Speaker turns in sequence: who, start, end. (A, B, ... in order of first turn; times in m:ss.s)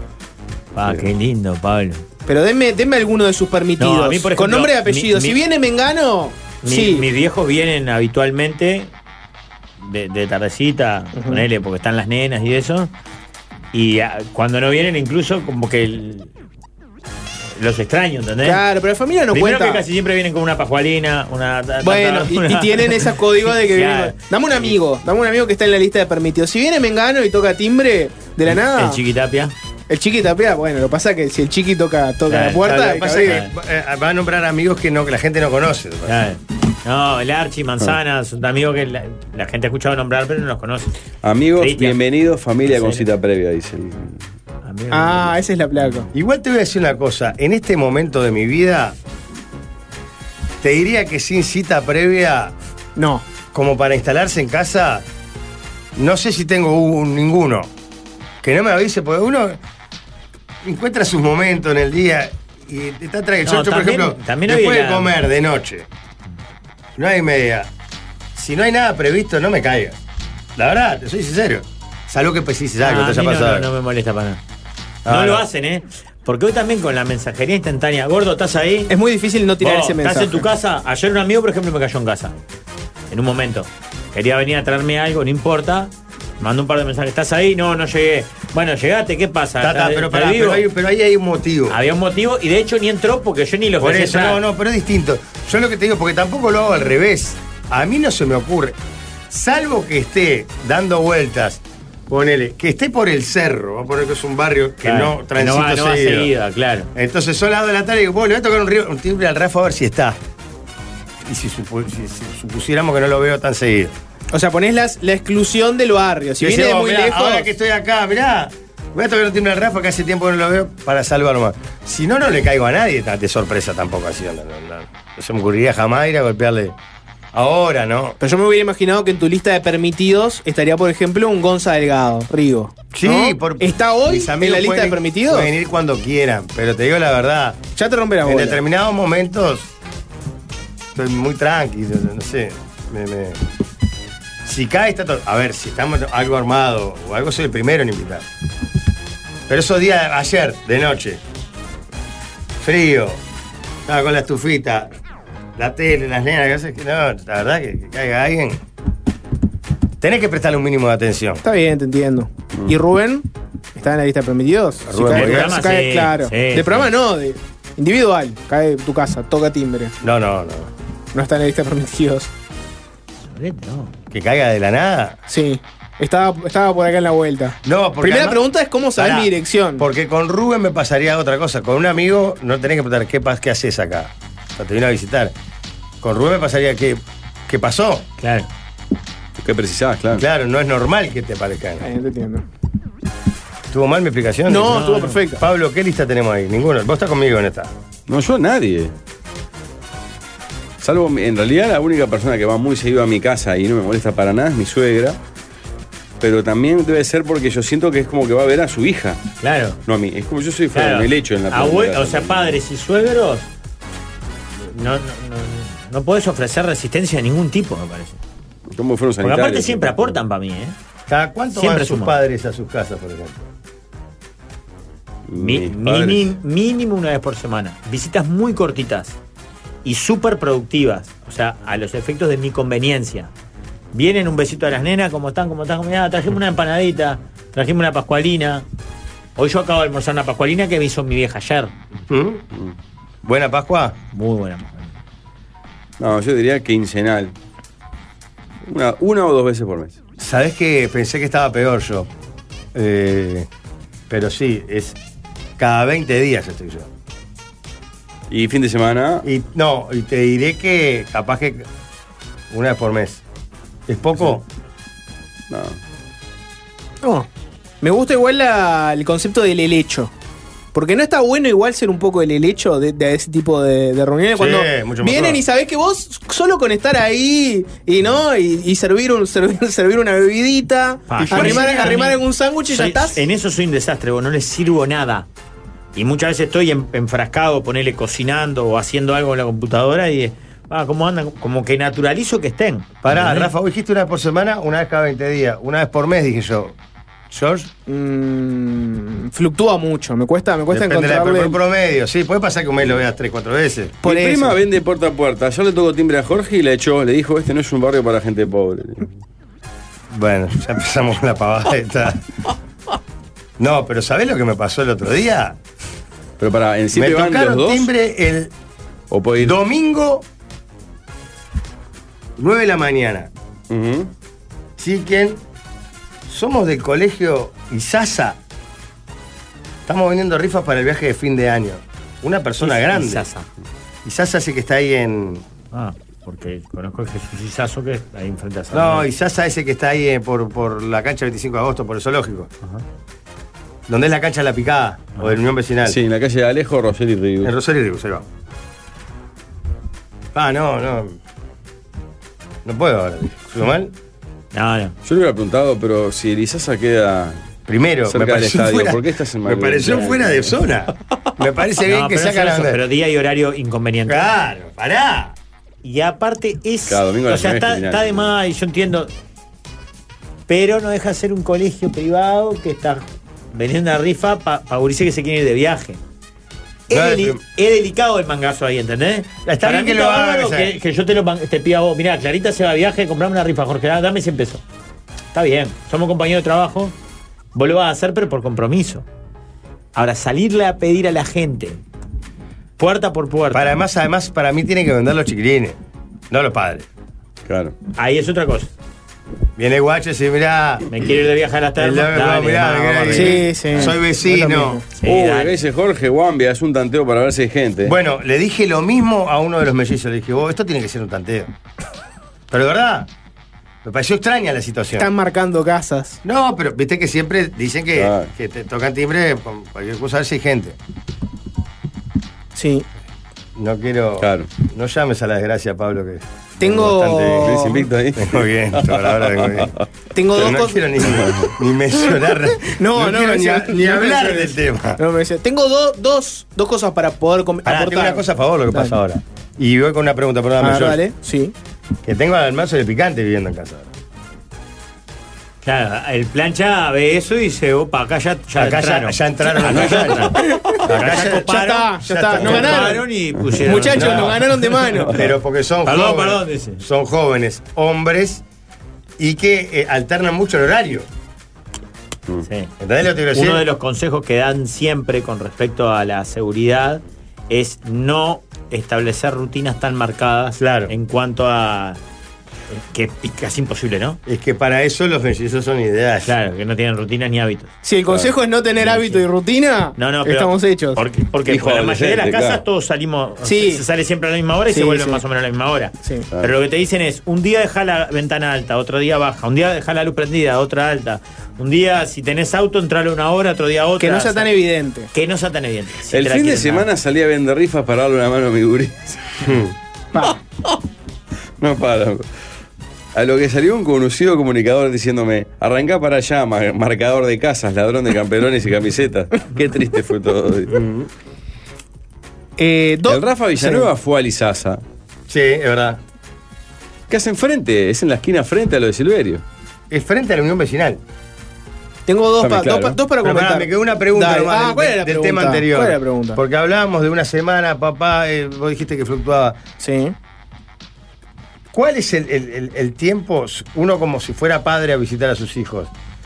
0:00.8-0:02.0 A
0:02.3-0:07.1 B
0:03.8-0:05.4 A
0:06.6-0:08.9 A
0:09.8-0:12.9 A
0:11.2-0:11.4 B
0:13.7-0:16.3 A
0:17.6-0:18.6 A
0:18.4-0:19.8 B
0:19.3-0:24.8 A
0:21.8-0:29.0 B
0:28.5-0:29.5 A
0:29.9-0:33.4 B
0:32.3-0:33.5 A
0:32.6-0:36.2 C
0:36.1-0:40.9 A
0:41.2-0:44.2 D
0:41.6-0:42.0 A
0:42.7-0:43.0 A
0:44.6-0:45.4 A
0:44.9-0:46.1 B
0:46.1-0:49.0 C
0:50.6-0:52.5 C
0:53.0-0:53.2 B
0:53.5-0:55.0 C
0:56.0-0:57.7 C
0:58.4-0:59.6 C
1:00.6-1:05.9 C
1:03.4-1:05.1 A
1:07.0-1:07.7 C
1:08.4-1:10.0 C
1:10.6-1:13.7 C
1:12.8-1:14.4 A
1:15.0-1:15.4 C
1:15.1-1:18.9 A
1:18.9-1:20.5 B
1:19.6-1:22.4 A
1:23.1-1:30.7 A
1:29.6-1:31.8 C
1:31.7-1:34.4 A
1:33.8-1:38.8 C
1:39.3-1:46.3 C
1:44.8-1:46.9 A
1:47.0-1:50.2 C
1:51.2-1:54.0 C
1:54.3-1:57.5 B
1:56.4-2:06.8 C
2:07.3-2:08.2 C
2:08.2-2:15.5 B
2:12.9-2:17.7 C
2:17.8-2:18.6 B
2:18.2-2:19.7 C
2:21.0-2:23.4 C
2:24.4-2:28.3 C
2:29.5-2:31.2 C
2:32.6-2:33.2 C
2:33.9-2:34.9 C
2:35.6-2:38.6 C
2:40.0-2:41.4 C
2:41.4-2:49.9 B
2:44.9-2:45.5 C
2:45.1-2:46.9 A
2:50.0-2:50.7 C
2:51.1-2:52.3 B
2:53.3-2:53.9 A
2:54.1-2:55.2 C
2:55.3-2:59.8 B
2:57.7-2:58.4 C
2:59.0-3:05.3 C
3:06.0-3:08.1 C
3:08.2-3:08.5 A
3:09.4-3:10.2 D
3:10.2-3:11.8 C
3:11.8-3:12.4 B
3:13.7-3:14.8 C
3:14.5-3:15.4 B
3:14.6-3:15.2 A
3:15.4-3:17.7 C
3:18.1-3:18.9 D
3:20.8-3:25.2 D
3:26.2-3:29.2 D
3:29.4-3:29.8 A
3:29.9-3:32.6 D
3:30.7-3:33.5 A
3:34.6-3:38.2 A
3:38.7-3:40.2 D
3:39.2-3:40.8 A
3:41.1-3:43.4 C
3:41.5-3:42.2 A
3:45.3-3:46.3 D
3:45.4-3:49.2 A
3:49.8-3:53.3 A
3:53.9-3:58.6 A
3:59.4-4:01.7 A
4:02.1-4:02.4 C
4:03.2-4:04.0 C
4:04.1-4:04.9 A
4:06.0-4:07.3 D
4:08.6-4:10.0 D
4:10.2-4:12.1 C
4:12.8-4:13.5 C
4:14.1-4:15.0 C
4:15.6-4:16.9 C
4:18.3-4:19.2 D
4:19.2-4:21.6 C
4:22.5-4:23.2 C
4:23.9-4:24.4 C
4:25.5-4:25.8 D
4:27.0-4:27.3 B
4:27.8-4:30.1 B
4:30.7-4:43.2 B
4:34.4-4:35.4 C
4:41.1-4:45.3 A
4:41.2-4:41.9 C
4:46.0-4:53.5 A
4:53.0-4:56.8 C
4:57.3-4:57.7 C
4:57.9-5:01.6 B
5:00.7-5:04.0 C
5:04.0-5:04.6 B
5:04.0-5:09.2 D
5:10.1-5:12.2 C
5:13.6-5:15.6 C
5:16.4-5:17.9 D
5:16.9-5:18.5 C
5:19.1-5:19.5 D
5:19.4-5:20.2 C
5:22.4-5:23.3 C
5:23.7-5:24.1 D
5:24.8-5:25.4 C
5:26.3-5:28.4 C
5:29.9-5:33.2 C
5:32.6-5:33.5 A
5:34.0-5:35.4 C
5:35.7-5:39.1 A
5:38.7-5:42.5 C
5:43.9-5:46.0 C
5:45.9-5:47.5 D
5:47.4-5:48.2 C
5:50.4-5:51.2 C
5:52.6-5:53.9 C
5:54.5-5:55.0 A
5:55.0-5:57.4 D
5:57.7-6:02.8 C
5:58.1-6:00.5 D
6:01.9-6:04.2 A
6:04.1-6:05.4 C
6:05.8-6:09.1 A
6:06.9-6:08.3 D
6:10.5-6:16.0 A
6:16.9-6:24.6 A
6:16.9-6:17.4 C
6:19.4-6:20.7 C
6:25.3-6:26.9 A
6:27.6-6:29.0 A
6:30.0-6:31.8 A
6:32.8-6:33.8 A
6:33.5-6:35.8 C
6:36.3-6:36.9 C
6:37.5-6:37.8 D
6:37.9-6:38.7 A
6:39.6-6:40.8 C
6:40.9-6:43.9 A
6:41.8-6:44.8 C
6:43.1-6:44.8 B
6:45.0-6:45.6 A
6:45.0-6:48.0 D
6:47.8-6:51.5 C
6:52.5-6:53.1 C
6:53.8-6:55.1 C
6:54.9-6:56.2 B
6:56.2-7:00.8 C
6:58.0-6:58.3 D
7:02.6-7:02.8 B
7:03.6-7:09.7 C
7:04.2-7:04.5 D
7:06.6-7:07.9 B
7:07.4-7:09.7 D
7:10.1-7:10.9 B
7:10.4-7:15.0 C
7:11.0-7:11.5 D
7:12.6-7:19.0 B
7:17.6-7:21.0 C
7:20.6-7:21.5 B
7:22.0-7:23.9 C
7:25.6-7:34.8 A
7:28.6-7:33.0 C
7:29.6-7:30.8 D
7:30.4-7:33.1 B
7:33.6-7:35.1 B
7:33.9-7:34.4 C
7:34.8-7:35.3 D
7:35.1-7:38.4 C
7:35.8-7:36.8 A
7:39.2-7:41.1 C
7:42.4-7:42.7 A
7:42.8-7:43.6 C
7:43.3-7:52.0 A
7:50.6-7:50.9 C
7:52.7-7:54.2 A
7:54.3-7:56.3 C
7:56.2-7:57.7 A
7:57.8-8:01.0 B
7:58.1-7:58.4 D
8:00.0-8:14.6 A
8:01.5-8:02.6 D
8:03.4-8:03.8 B
8:04.7-8:05.2 B
8:14.0-8:15.1 B
8:15.1-8:16.9 A
8:16.1-8:19.5 D
8:20.1-8:20.4 B
8:21.6-8:22.3 D
8:23.1-8:31.1 D
8:32.6-8:33.9 B
8:33.1-8:34.8 D
8:35.3-8:36.0 C
8:37.1-8:39.4 D
8:39.9-8:41.0 C
8:42.1-8:46.4 B
8:42.4-8:43.0 D
8:43.2-8:49.6 C
8:49.8-8:50.1 B
8:51.7-8:55.9 C